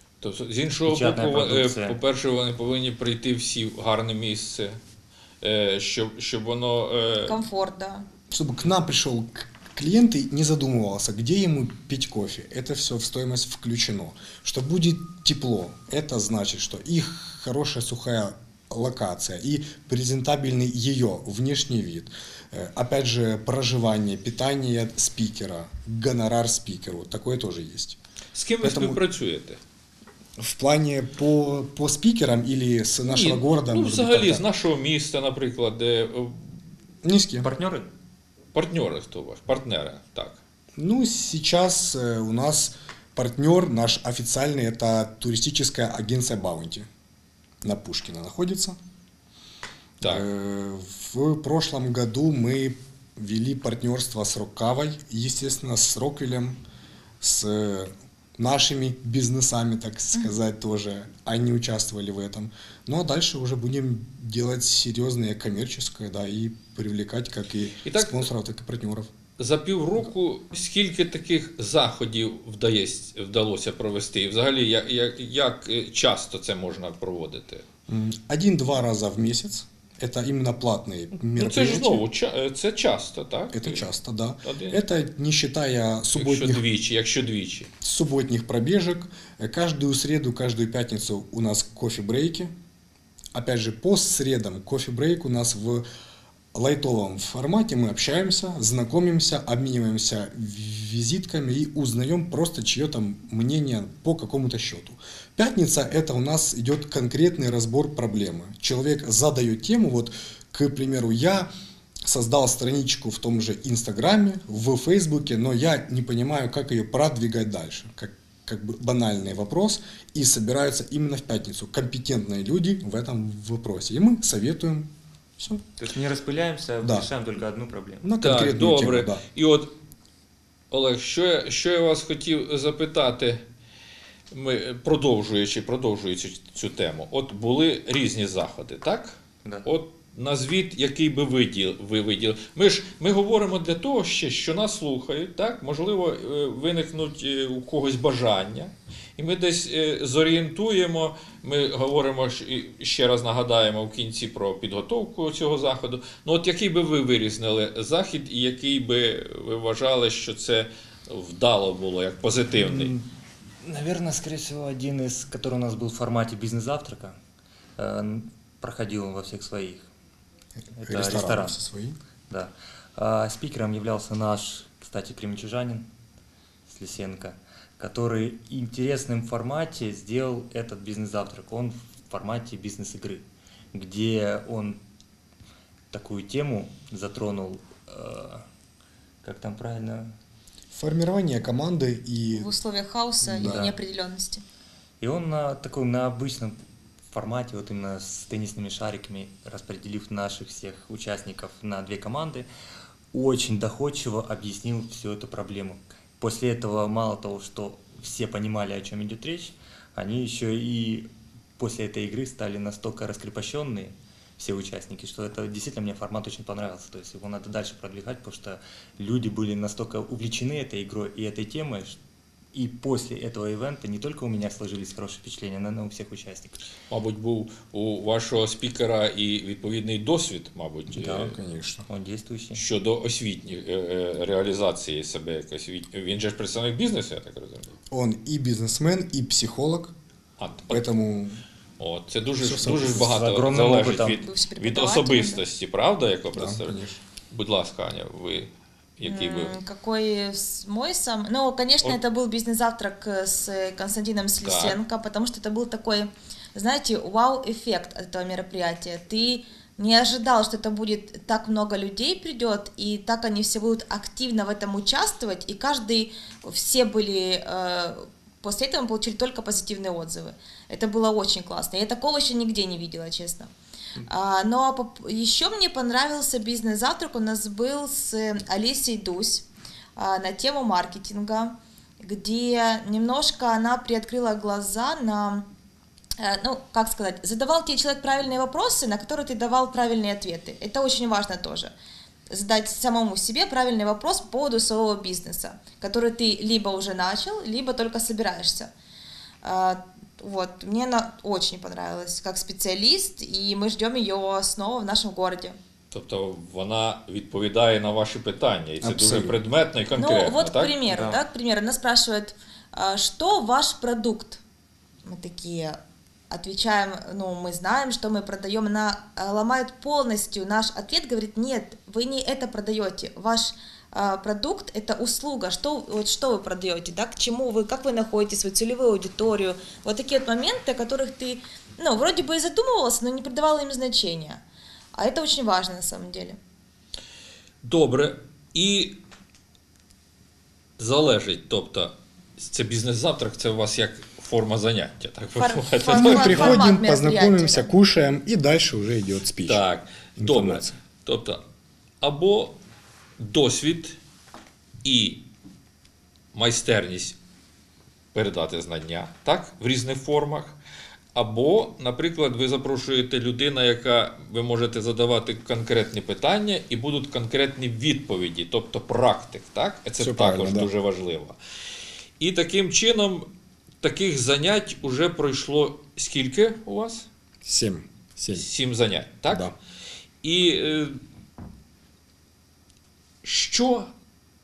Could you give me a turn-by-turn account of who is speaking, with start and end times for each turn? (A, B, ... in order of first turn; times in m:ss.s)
0:00.2-0:04.8 A
0:00.9-0:02.0 B
0:05.4-0:07.4 A
0:07.3-0:08.0 C
0:08.3-0:28.0 D
0:28.3-0:29.6 A
0:28.6-0:29.0 D
0:30.4-0:34.4 D
0:33.1-0:36.5 A
0:37.0-0:37.5 D
0:37.4-0:37.9 B
0:38.5-0:40.4 A
0:40.8-0:46.9 D
0:47.6-0:48.8 D
0:50.0-0:50.2 A
0:50.0-0:56.6 D
0:57.2-1:09.1 D
1:07.8-1:08.3 A
1:09.4-1:17.6 A
1:17.9-1:22.0 D
1:21.3-1:23.8 A
1:23.5-1:26.6 D
1:24.4-1:24.8 A
1:26.1-1:27.7 A
1:27.8-1:32.5 D
1:33.3-1:35.8 D
1:36.5-1:51.5 D
1:52.0-2:05.6 D
2:05.7-2:08.1 B
2:06.8-2:07.1 D
2:08.0-2:09.2 D
2:08.2-2:09.7 A
2:10.7-2:13.4 A
2:14.3-2:42.9 A
2:42.5-2:43.1 B
2:43.6-2:47.2 B
2:47.8-2:49.9 B
2:50.8-2:51.6 B
2:50.8-2:52.0 D
2:52.3-2:55.9 B
2:56.7-3:04.8 B
3:05.9-3:08.4 B
3:09.2-3:10.2 B
3:10.7-3:12.5 D
3:12.3-3:14.4 C
3:13.3-3:13.7 B
3:13.3-3:13.7 D
3:15.0-3:16.6 B
3:17.1-3:22.5 B
3:23.1-3:42.0 B
3:42.5-3:46.7 B
3:46.9-3:51.4 A
3:50.9-3:51.3 B
3:51.0-3:51.8 D
3:51.9-3:52.6 B
3:52.5-3:57.8 A
3:57.9-3:59.9 D
4:00.4-4:00.9 A
4:00.7-4:01.4 D
4:01.8-4:09.6 A
4:02.4-4:03.1 D
4:02.6-4:04.2 B
4:04.2-4:05.4 C
4:06.3-4:07.0 D
4:09.0-4:33.5 C
4:14.4-4:14.8 A
4:34.1-4:45.5 C
4:46.2-4:51.7 C
4:52.3-4:58.7 C
4:59.4-5:05.6 C
5:05.9-5:11.0 A
5:08.8-5:09.4 D
5:09.9-5:14.4 C
5:15.0-5:15.8 C
5:16.3-5:34.4 C
5:34.9-5:36.4 C
5:37.6-5:39.0 A
5:40.8-5:46.7 A
5:45.4-5:47.7 C
5:45.9-5:49.6 D
5:49.4-5:51.4 A
5:50.2-5:50.7 D
5:52.0-5:52.6 A
5:53.2-5:54.0 A
5:54.8-5:55.2 A
5:56.3-5:57.2 A
5:58.1-6:00.6 A
6:01.1-6:11.4 A
6:10.0-6:10.7 D
6:12.2-6:13.3 A
6:13.8-6:17.1 A
6:17.4-6:18.5 D
6:18.3-6:19.5 A
6:20.2-6:21.0 A
6:23.2-6:23.9 A